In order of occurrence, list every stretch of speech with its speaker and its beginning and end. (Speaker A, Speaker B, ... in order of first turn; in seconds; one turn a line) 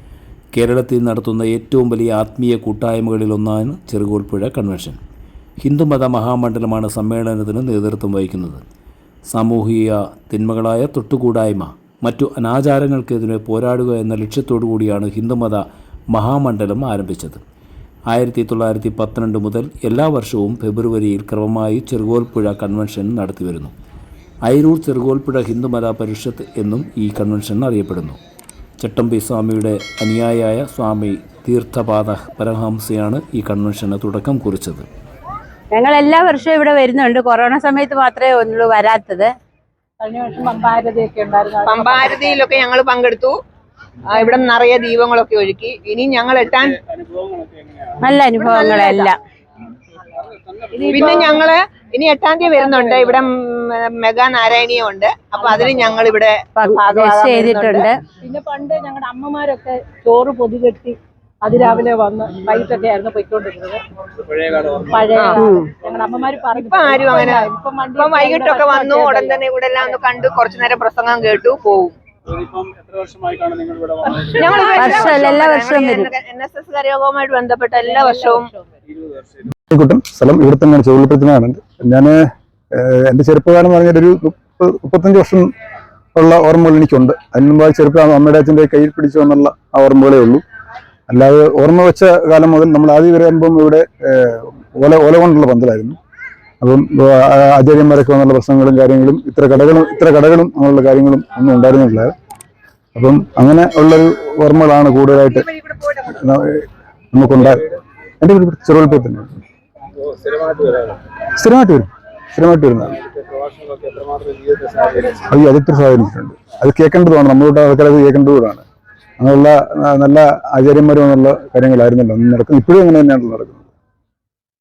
Speaker A: 0.5-5.0
Speaker A: 5.6-8.6
Speaker A: 9.3-17.4
Speaker A: 18.1-23.7
Speaker A: 24.4-28.2
Speaker A: 28.8-34.8
Speaker B: 35.7-39.3
Speaker C: 40.0-42.3
Speaker D: 41.6-43.4
Speaker D: 44.1-46.8
Speaker B: 48.0-49.2
Speaker D: 48.5-49.0
Speaker C: 50.7-51.5
Speaker D: 50.9-57.8
Speaker C: 52.5-53.2
Speaker B: 56.5-58.0
Speaker C: 58.2-63.8
Speaker C: 64.8-69.4
Speaker B: 65.4-65.7
Speaker D: 66.6-71.9
Speaker D: 74.0-78.5
Speaker C: 74.4-74.8
Speaker B: 74.7-76.1
Speaker E: 79.7-82.2
Speaker E: 82.8-85.5
Speaker E: 86.1-90.4
Speaker E: 91.1-96.0
Speaker E: 96.6-102.1
Speaker E: 102.9-105.5
Speaker E: 106.1-107.6
Speaker E: 108.2-109.4
Speaker E: 111.4-113.0
Speaker E: 115.3-118.6
Speaker E: 119.2-123.6